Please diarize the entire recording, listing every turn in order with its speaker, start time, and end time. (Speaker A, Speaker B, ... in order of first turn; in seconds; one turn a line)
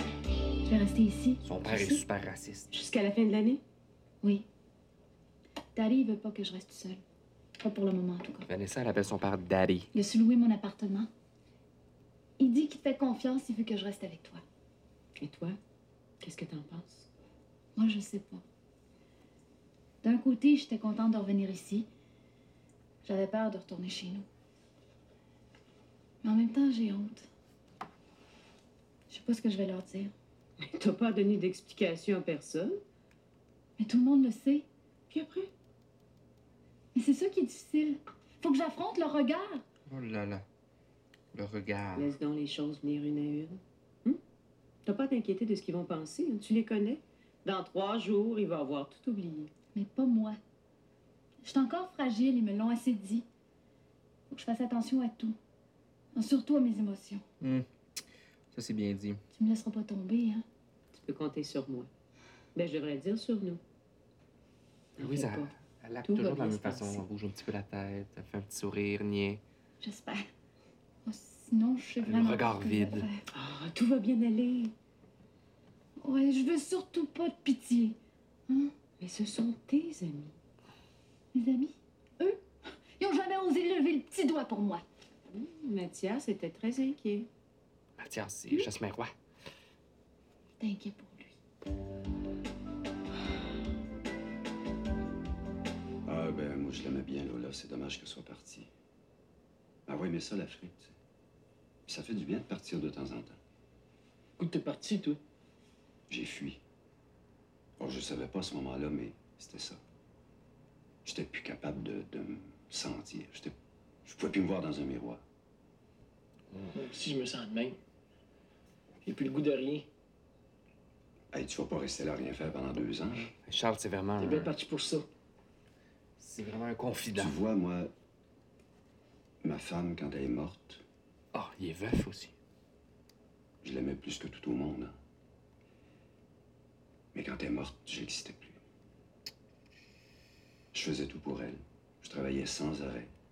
Speaker A: 0.6-2.0
Speaker B: 1.4-2.7
Speaker C: 2.7-3.6
Speaker A: 5.7-7.0
Speaker A: 7.6-8.5
Speaker B: 8.5-9.9
Speaker A: 9.9-11.1
Speaker A: 12.4-14.4
Speaker C: 15.2-15.6
Speaker C: 16.2-17.1
Speaker A: 17.8-18.4
Speaker A: 20.0-21.9
Speaker A: 23.0-24.3
Speaker A: 26.2-27.3
Speaker A: 29.1-30.1
Speaker C: 30.6-32.8
Speaker A: 33.8-34.6
Speaker C: 35.1-35.5
Speaker A: 36.9-39.6
Speaker B: 39.9-40.4
Speaker B: 41.3-42.1
Speaker C: 42.0-44.2
Speaker C: 44.9-49.5
Speaker A: 49.7-50.4
Speaker A: 51.4-53.2
Speaker A: 54.3-55.4
Speaker A: 56.1-57.2
Speaker B: 57.4-57.7
Speaker B: 58.5-59.2
Speaker A: 59.3-60.4
Speaker C: 60.9-61.9
Speaker C: 62.5-63.6
Speaker C: 65.0-65.5
Speaker B: 65.0-69.4
Speaker C: 66.0-67.0
Speaker A: 69.8-70.3
Speaker A: 71.0-73.2
Speaker B: 72.0-73.1
Speaker C: 73.3-74.7
Speaker A: 76.0-78.0
Speaker A: 78.5-78.7
Speaker C: 79.0-80.3
Speaker A: 81.3-82.4
Speaker A: 83.0-84.8
Speaker C: 85.3-87.3
Speaker B: 88.0-89.1
Speaker A: 90.6-91.3
Speaker D: 96.0-98.7
Speaker D: 99.9-100.9
Speaker D: 101.9-103.4
Speaker E: 104.4-105.2
Speaker D: 106.1-106.6
Speaker D: 107.8-109.8
Speaker D: 111.0-115.2
Speaker E: 116.7-117.8
Speaker E: 119.0-119.9
Speaker D: 121.3-123.3
Speaker B: 123.4-124.5
Speaker E: 124.2-125.1
Speaker B: 126.2-127.3
Speaker D: 127.1-127.9
Speaker D: 129.4-130.8
Speaker B: 131.3-132.3
Speaker D: 133.6-134.9
Speaker D: 137.1-138.6
Speaker D: 140.7-143.1